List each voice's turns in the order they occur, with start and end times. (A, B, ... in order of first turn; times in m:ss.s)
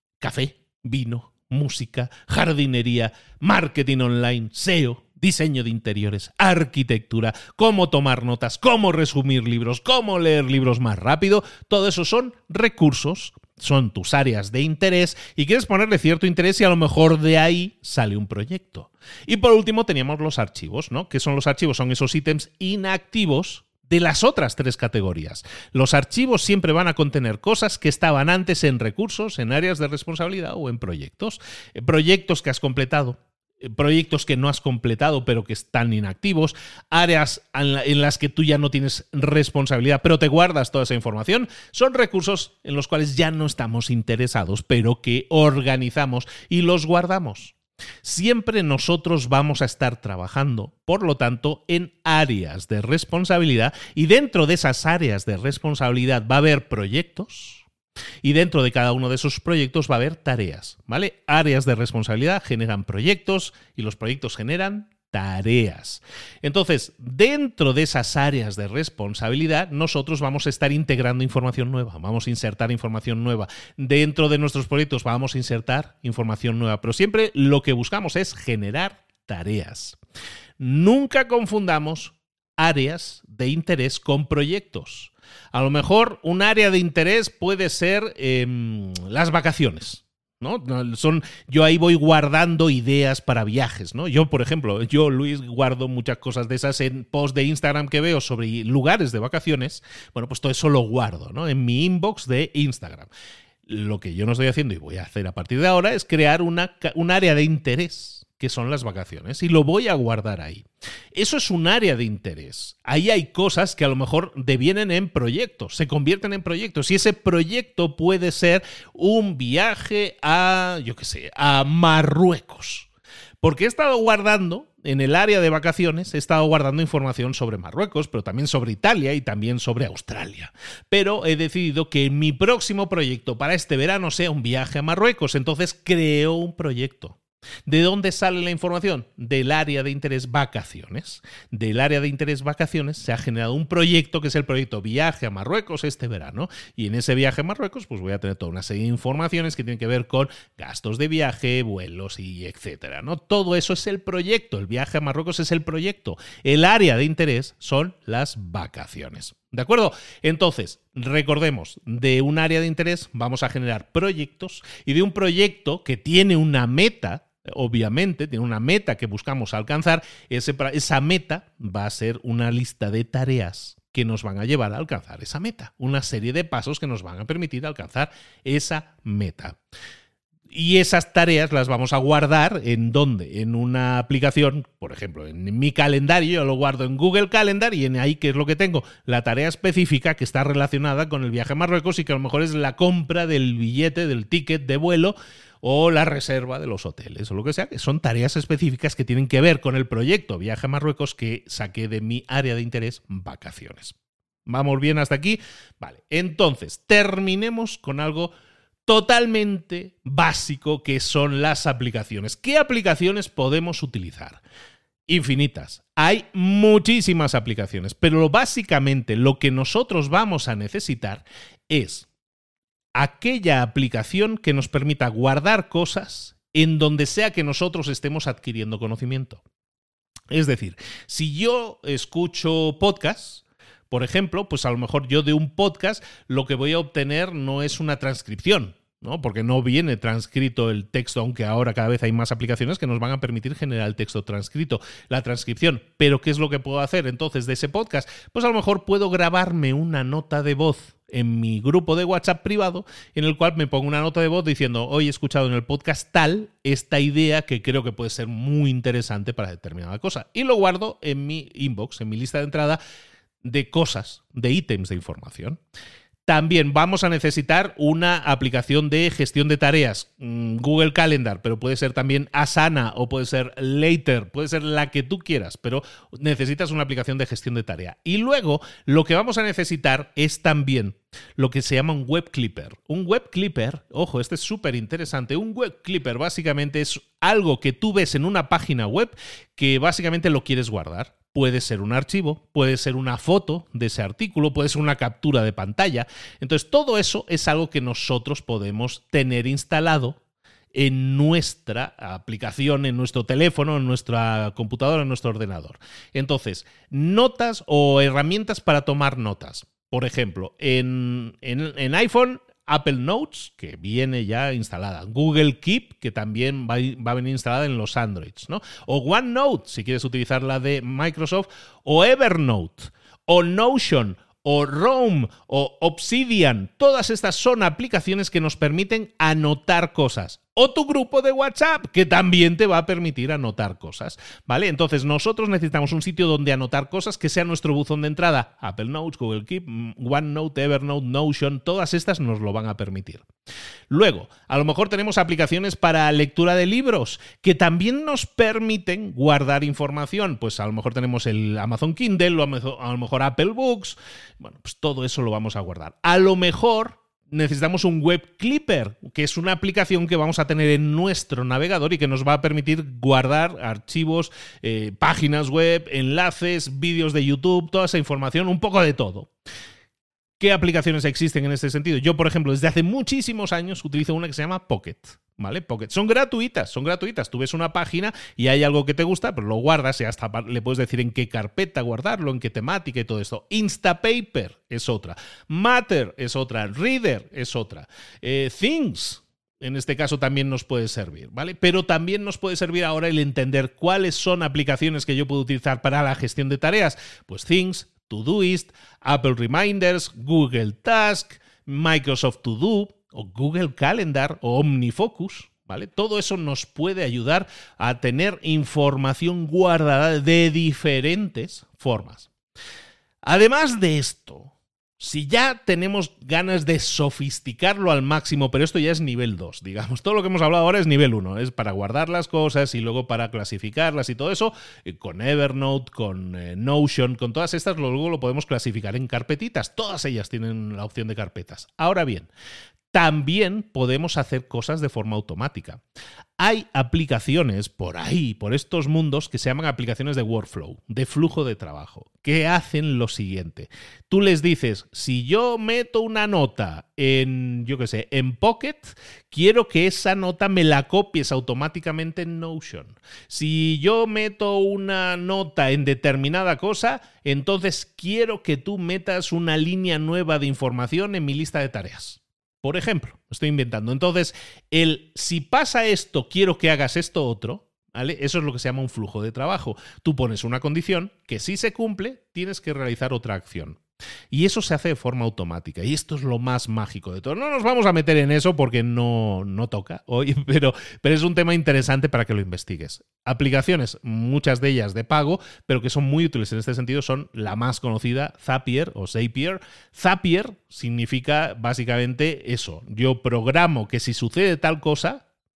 0:00.2-0:57.6 A
0:58.2-1:20.0 A
1:20.6-1:43.1 A
1:43.7-2:02.9 A
2:03.4-2:59.6 A
3:00.5-3:24.0 A
3:24.5-3:28.3 A
3:28.9-3:34.4 A
3:35.1-3:42.1 A
3:43.0-3:49.4 A
3:50.3-4:22.8 A
4:23.4-4:25.6 A
4:26.3-5:00.2 A
5:00.7-5:43.3 A
5:43.9-6:09.3 A
6:10.4-6:52.3 A
6:53.3-7:12.3 A
7:12.9-7:15.8 A
7:16.4-7:53.8 A
7:54.3-8:15.2 A